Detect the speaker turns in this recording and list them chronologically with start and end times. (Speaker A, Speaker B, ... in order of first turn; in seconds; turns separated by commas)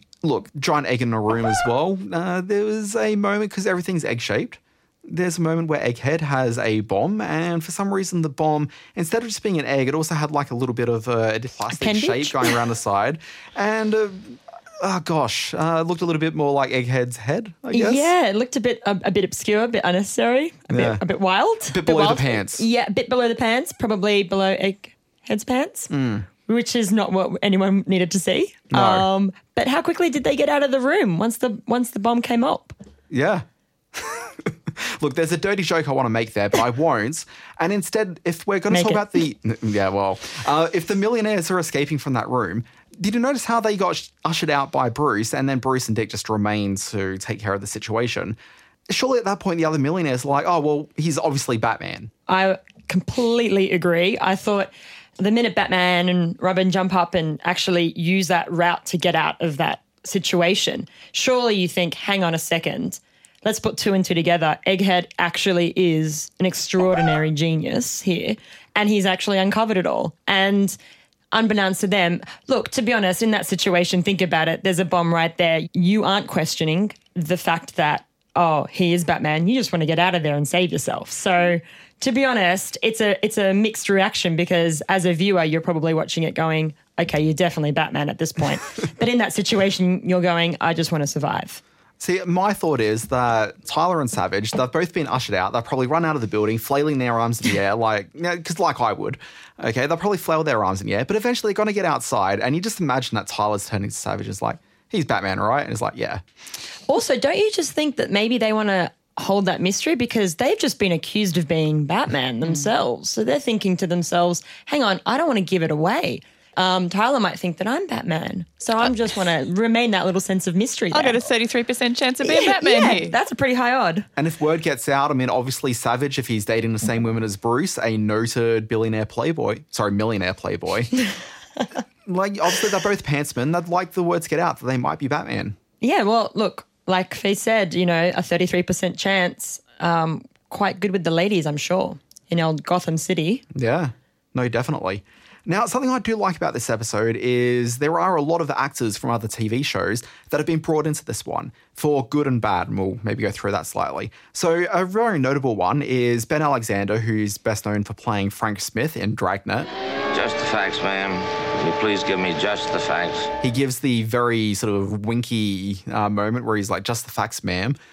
Speaker A: 0.2-18.1, Speaker B: 11.7-12.6, Speaker B: 17.7-25.9, Speaker A: 20.7-21.0, Speaker A: 21.7-22.6, Speaker C: 21.9-22.2, Speaker A: 25.9-26.3, Speaker B: 26.5-32.8, Speaker A: 28.7-29.1, Speaker A: 33.1-48.4, Speaker B: 38.7-39.1, Speaker A: 48.9-52.1, Speaker B: 52.3-70.8, Speaker B: 71.3-91.6, Speaker A: 92.0-106.2, Speaker B: 106.9-121.2, Speaker C: 112.4-112.7, Speaker C: 120.9-123.2, Speaker B: 122.2-124.1, Speaker A: 124.2-130.9, Speaker A: 132.1-135.6, Speaker B: 135.8-143.4, Speaker A: 143.5-159.7, Speaker D: 160.1-163.3, Speaker A: 163.4-167.8